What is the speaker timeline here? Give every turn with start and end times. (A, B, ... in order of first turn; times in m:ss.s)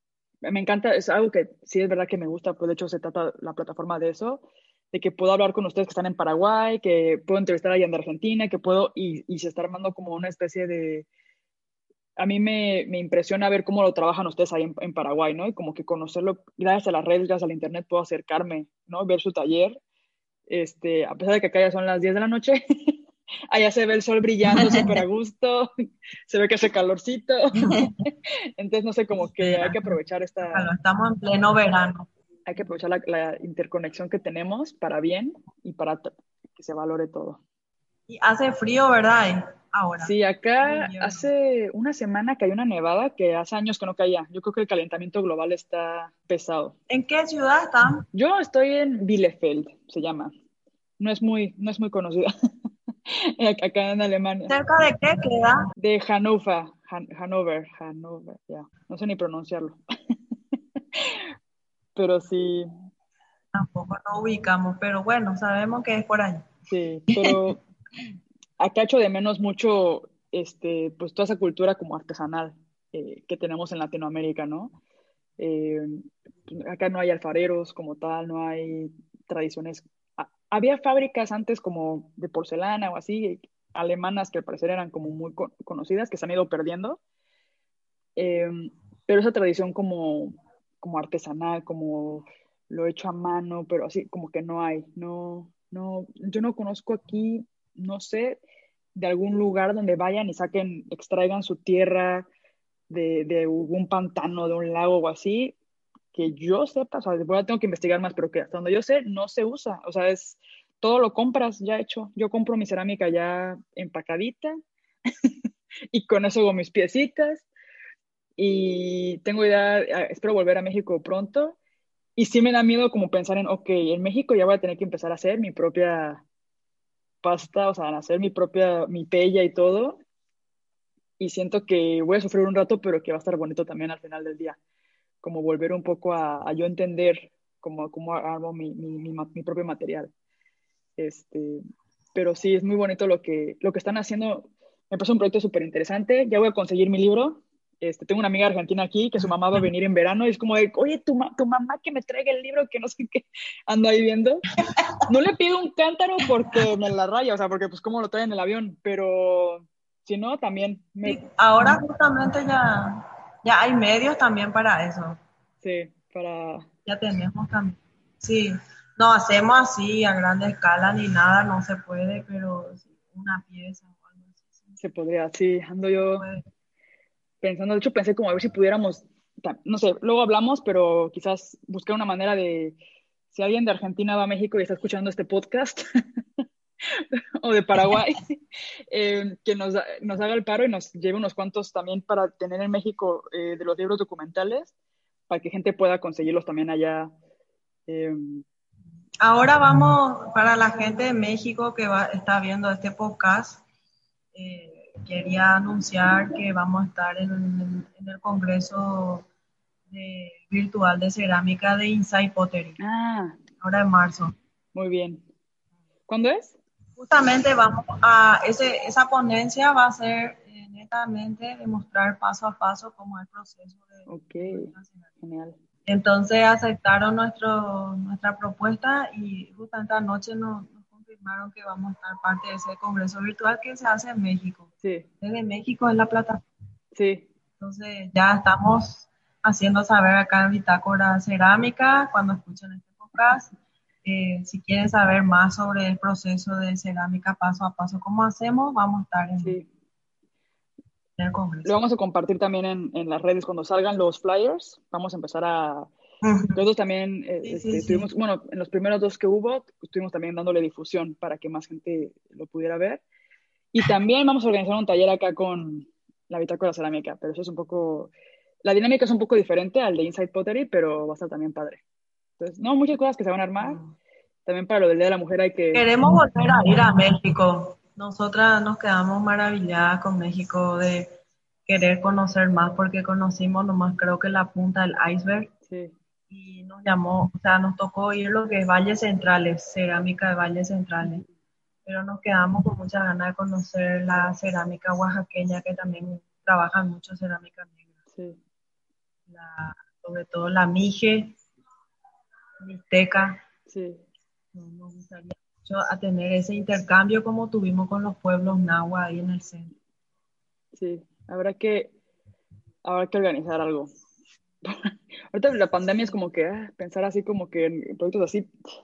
0:00.4-0:11.0 A
0:12.2-0:19.8 A
0:20.5-0:23.0 A
0:23.5-0:25.7 A
0:26.3-0:30.7 A
0:27.6-0:27.9 B
0:29.4-0:32.1 B
0:32.4-0:37.4 A
0:38.1-0:41.3 B
0:40.0-0:46.8 A
0:46.9-0:48.0 B
0:48.1-0:50.3 A
0:51.0-0:52.3 A
0:53.1-0:54.5 A
0:54.5-0:55.6 B
0:55.8-0:59.8 A
1:00.8-1:01.2 A
1:02.0-1:02.7 A
1:03.5-1:06.5 B
1:06.7-1:07.6 A
1:08.6-1:14.7 A
1:15.4-1:27.0 A
1:28.2-1:38.4 A
1:38.9-1:42.3 A
1:42.9-1:45.5 A
1:46.1-1:57.4 A
1:58.4-2:01.6 A
2:02.2-2:06.2 A
2:07.2-2:10.0 A
2:11.2-2:14.6 A
2:15.2-2:20.1 A
2:21.0-2:21.6 A
2:22.1-2:34.4 A
2:35.1-2:41.2 A
2:41.0-2:45.2 B
2:45.6-2:46.6 A
2:46.8-2:54.7 B
2:54.8-2:56.3 A
2:56.1-2:56.4 B
2:57.4-3:02.8 A
3:03.3-3:05.8 A
3:06.4-3:14.7 A
3:15.3-3:17.1 A
3:17.9-3:18.4 A
3:19.2-3:23.6 B
3:24.3-3:29.2 B
3:29.9-3:32.8 B
3:32.8-3:33.4 A
3:33.6-3:34.3 B
3:34.7-3:35.2 A
3:36.1-3:36.6 A
3:37.0-3:45.1 B
3:44.1-3:45.5 A
3:45.9-3:54.7 B
3:54.8-3:55.1 A
3:55.2-3:56.4 B
3:56.9-3:57.3 A
3:57.6-4:03.5 B
4:04.0-4:09.6 B
4:09.4-4:09.7 A
4:11.2-4:11.8 B
4:11.6-4:15.9 A
4:16.2-4:16.6 B
4:16.5-4:23.0 A
4:17.4-4:18.1 B
4:23.7-4:28.1 A
4:28.6-4:31.8 A
4:32.4-4:33.8 A
4:33.6-4:33.9 B
4:34.4-4:35.8 A
4:35.7-4:45.5 B
4:45.7-4:45.9 A
4:46.3-4:51.2 B
4:51.8-4:57.9 B
4:58.1-4:58.4 A
4:59.3-5:01.4 B
5:02.6-5:03.4 B
5:03.7-5:04.0 A
5:04.5-5:09.7 B
5:10.7-5:11.9 A
5:12.8-5:13.9 A
5:14.6-5:18.5 A